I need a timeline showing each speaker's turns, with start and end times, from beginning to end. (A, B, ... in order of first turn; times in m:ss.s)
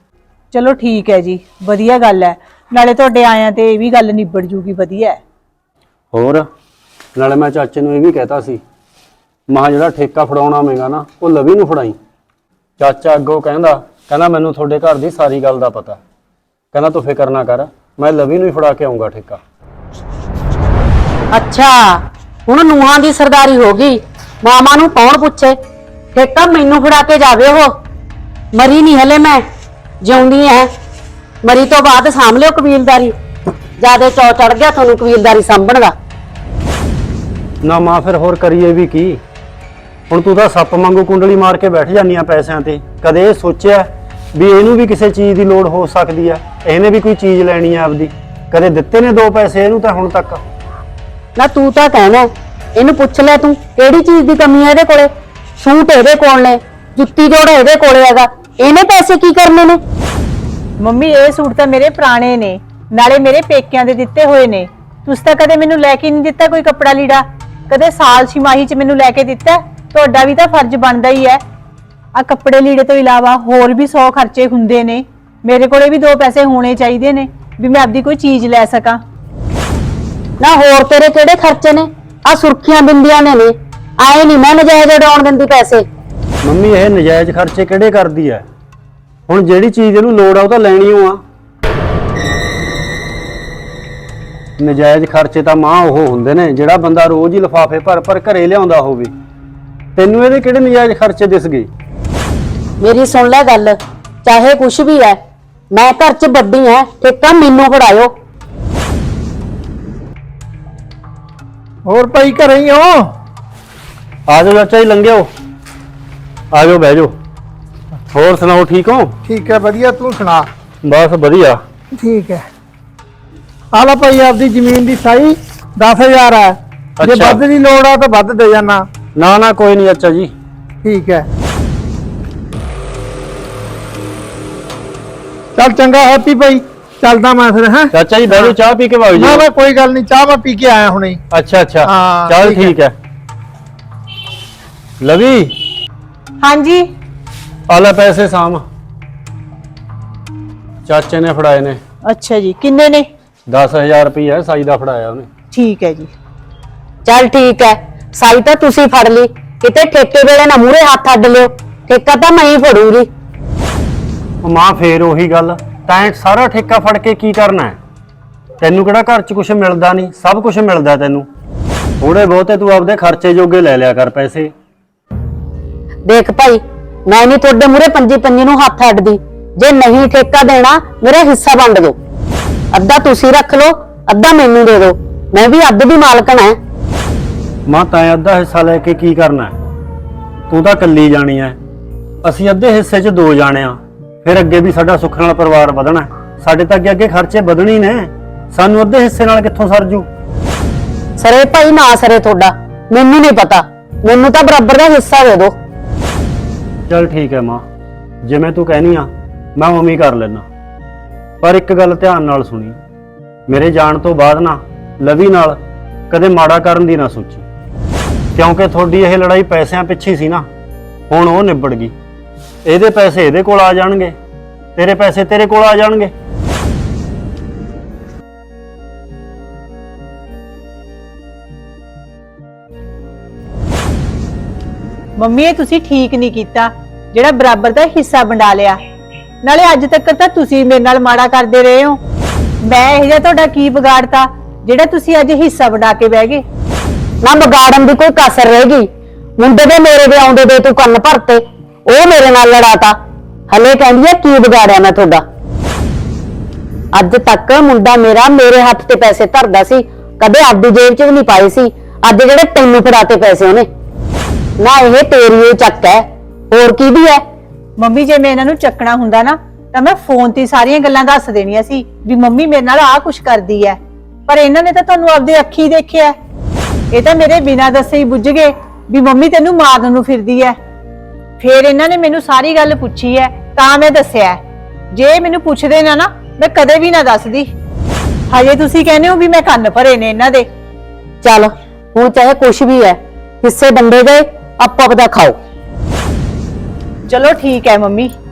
0:00.5-0:05.2 A
0:06.1-0:06.4 B
0:07.2-0:08.6 B
0:09.5-0:12.0 B
0:12.8-0:16.0 B
0:16.7-0:19.4 B
0:21.3-0:25.6 C
0:26.1-0:27.7 C
0:28.5-0:29.4 C
0:30.0-0:30.7 C
0:31.4-0:33.1 C
0:33.8-0:35.9 C
0:37.6-0:39.2 B
0:40.1-0:50.4 B
0:51.4-0:59.8 C
1:00.8-1:11.4 A
1:12.1-1:19.0 A
1:20.4-1:25.8 C
1:26.4-1:28.4 B
1:29.3-1:31.2 B
1:34.6-1:39.1 B
1:40.0-1:41.7 B
1:42.8-1:45.2 C
1:45.7-1:48.1 C
1:51.8-1:53.1 D
1:54.3-1:55.3 B
1:56.5-1:57.1 B
1:58.1-1:59.1 B
1:59.2-2:00.5 D
2:00.8-2:01.6 B
2:02.0-2:02.4 D
2:03.7-2:08.8 D
2:07.0-2:07.4 B
2:09.2-2:10.3 B
2:10.8-2:11.3 D
2:15.5-2:18.5 D
2:17.9-2:19.4 B
2:19.1-2:21.2 D
2:21.3-2:22.9 B
2:21.8-2:22.7 D
2:25.0-2:25.6 B
2:26.4-2:26.9 A
2:27.7-2:28.6 B
2:30.8-2:31.8 B
2:32.1-2:33.1 A
2:33.5-2:35.3 B
2:35.5-2:36.1 A
2:37.0-2:43.1 C
2:44.4-2:47.8 B
2:48.6-2:51.3 B
2:52.0-2:54.5 B
2:56.0-3:02.0 C
3:02.7-3:06.6 C
3:07.7-3:09.6 B
3:10.5-3:11.6 B
3:12.2-3:20.1 B
3:21.2-3:25.5 C
3:26.9-3:27.6 B
3:28.2-3:30.4 B
3:31.4-3:32.7 B
3:33.5-3:35.6 B
3:36.1-3:37.4 B
3:38.4-3:40.5 B
3:41.1-3:41.9 B
3:42.6-3:44.2 B
3:44.8-3:46.1 B
3:55.2-3:58.8 A
3:59.4-4:02.0 A
4:02.6-4:06.4 A
4:07.2-4:13.0 C
4:13.5-4:15.2 C
4:16.9-4:23.7 C
4:24.6-4:27.2 C
4:27.8-4:36.1 A
4:36.9-4:40.6 A
4:41.4-4:44.4 A
4:44.9-4:47.5 A
4:48.3-4:50.5 A
4:51.2-4:55.4 C
4:57.1-4:58.1 A